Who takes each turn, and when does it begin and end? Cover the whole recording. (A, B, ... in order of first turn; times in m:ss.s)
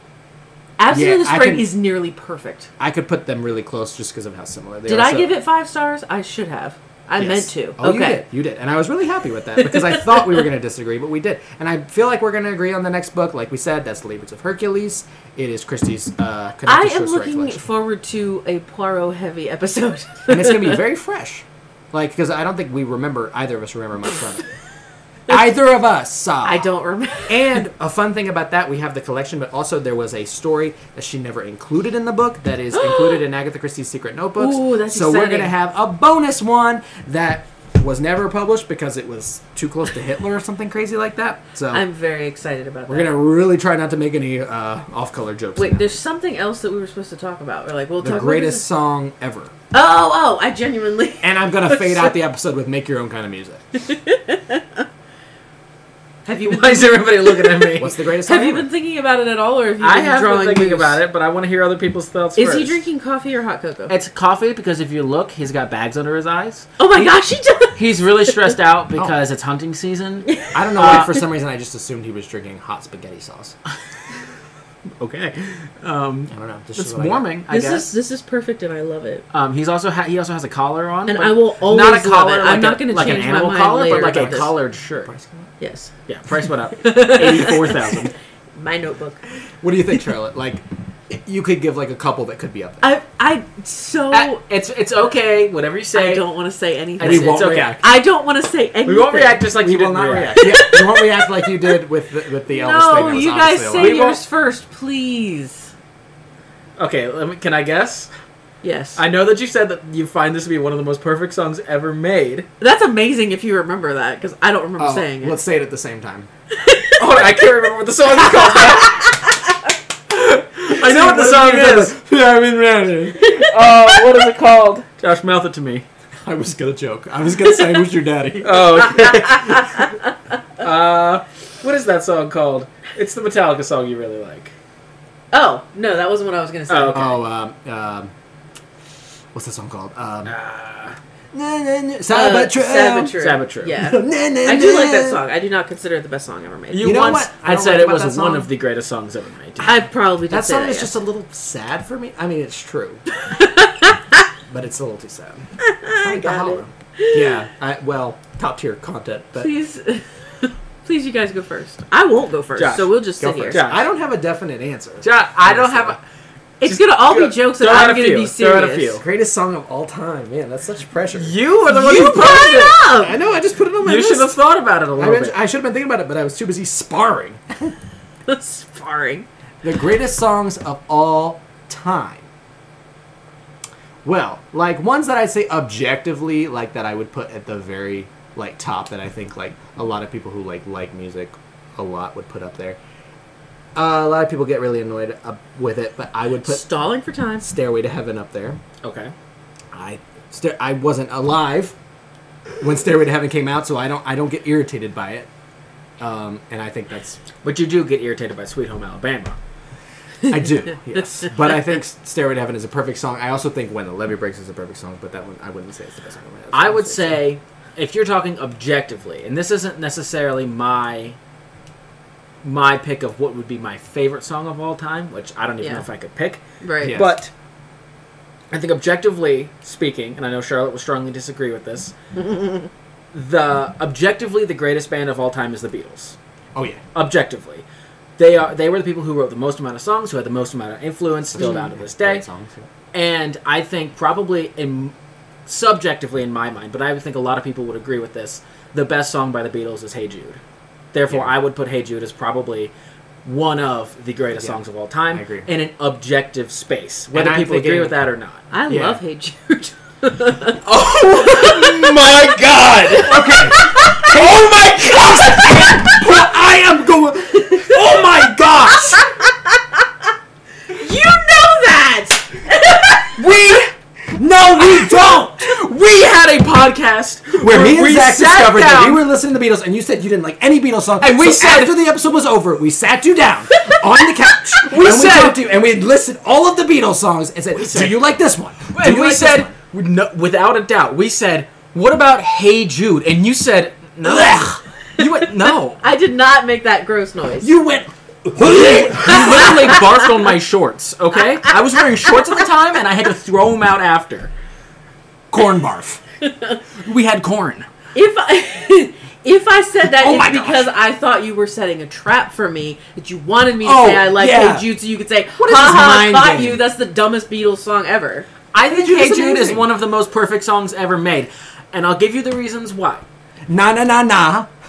0:00.8-0:02.7 A
0:00.9-0:01.7 B
0:02.8-0:05.3 B
0:04.9-0:08.2 A
0:07.2-0:17.6 B
0:09.6-0:10.4 A
0:16.6-0:20.8 A
0:20.3-0:24.4 B
0:25.3-0:26.7 B
0:26.4-0:27.4 A
0:27.3-0:41.8 B
0:32.7-0:33.2 A
0:34.4-0:35.5 A
0:41.7-0:43.1 A
0:42.9-0:46.0 B
0:45.6-0:48.6 A
0:48.0-0:49.5 B
0:49.7-0:52.1 A
0:51.2-0:53.6 B
0:53.8-0:54.8 A
0:56.3-1:01.0 A
0:56.4-0:57.9 C
0:57.8-0:58.7 B
0:59.8-1:02.8 C
1:02.4-1:03.9 A
1:03.9-1:06.7 C
1:06.8-1:07.8 A
1:07.8-1:11.2 C
1:10.3-1:11.1 A
1:10.5-1:13.6 B
1:15.0-1:17.9 C
1:16.3-1:17.2 B
1:17.5-1:19.2 A
1:19.3-1:25.1 C
1:21.1-1:24.5 A
1:23.9-1:25.5 B
1:25.6-1:25.9 A
1:26.1-1:28.1 C
1:26.8-1:29.3 A
1:29.6-1:32.9 B
1:32.8-1:34.4 A
1:34.1-1:36.3 C
1:35.9-1:39.5 A
1:37.0-1:37.8 C
1:37.0-1:37.9 B
1:38.8-1:40.5 C
1:39.6-1:44.0 B
1:40.4-1:41.8 A
1:42.5-1:45.7 A
1:43.8-1:44.2 C
1:46.8-1:48.1 C
1:48.6-1:49.0 A
1:49.0-1:52.5 C
1:52.6-1:55.4 A
1:54.8-1:56.3 B
1:56.6-1:56.9 A
1:57.0-1:59.2 C
2:00.1-2:02.1 C
2:00.7-2:03.2 B
2:03.0-2:05.8 C
2:03.2-2:03.5 A
2:06.2-2:09.5 B
2:08.4-2:09.8 C
2:09.4-2:09.9 A
2:10.6-2:14.5 C
2:15.3-2:17.2 A
2:16.7-2:17.1 C
2:16.9-2:18.1 B
2:19.3-2:20.4 B
2:20.3-2:21.0 C
2:21.3-2:23.2 B
2:22.1-2:27.0 A
2:23.2-2:23.8 C
2:23.8-2:25.2 B
2:26.7-2:29.9 C
2:26.8-2:28.5 B
2:29.6-2:31.0 A
2:30.3-2:33.0 B
2:33.2-2:34.2 A
2:34.5-2:39.5 B
2:35.6-2:37.3 A
2:39.4-2:43.6 A
2:42.6-2:43.0 C
2:43.2-2:46.0 B
2:43.5-2:43.8 C
2:45.0-2:46.0 C
2:46.6-2:49.0 A
2:46.6-2:49.0 C
2:49.0-2:51.4 B
2:51.1-2:52.9 C
2:51.7-2:53.2 A
2:53.0-2:54.4 B
2:53.8-2:55.4 C
2:55.0-2:57.7 B
2:58.3-2:59.3 A
2:59.6-3:02.3 B
3:04.0-3:12.8 B
3:13.8-3:16.6 B
3:16.4-3:17.4 A
3:17.4-3:18.6 B
3:18.8-3:19.1 C
3:19.7-3:21.8 B
3:22.6-3:25.3 B
3:26.0-3:27.2 B
3:27.4-3:29.4 C
3:30.3-3:37.2 B
3:36.5-3:41.2 C
3:42.4-3:47.3 C
3:45.6-3:45.9 A
3:46.6-3:47.0 A
3:46.8-3:47.2 B
3:48.5-3:51.9 C
3:52.2-3:52.7 A
3:53.1-3:56.2 C
3:56.6-3:56.8 B
3:56.9-3:57.6 C
3:58.2-4:02.2 C
4:01.4-4:02.7 B
4:01.4-4:01.7 A
4:02.9-4:04.9 C
4:05.4-4:10.4 C
4:10.9-4:12.7 C
4:11.1-4:11.3 B
4:13.2-4:18.4 C
4:15.1-4:15.5 B
4:17.1-4:18.0 B
4:18.5-4:20.6 A
4:18.7-4:19.0 B
4:20.6-4:26.0 C
4:20.8-4:29.1 B
4:21.2-4:21.9 A
4:23.2-4:24.1 A
4:29.0-4:29.3 A
4:30.7-4:33.2 A
4:33.1-4:33.7 C
4:34.1-4:35.5 B
4:34.7-4:39.0 C
4:37.4-4:49.5 B
4:41.0-4:41.8 C
4:44.5-4:45.4 C
4:47.6-4:48.0 C
4:48.7-4:55.8 C
4:54.0-4:54.6 B
4:55.0-4:57.5 A
4:57.4-4:59.8 B
4:58.4-5:04.3 C
4:58.9-5:00.0 A
5:05.3-5:06.0 B
5:06.2-5:06.6 A
5:06.8-5:07.7 C
5:07.9-5:18.3 A
5:09.8-5:10.7 B
5:13.6-5:14.6 B
5:15.4-5:16.6 B
5:18.5-5:23.0 C
5:18.7-5:19.6 B
5:23.5-5:24.5 B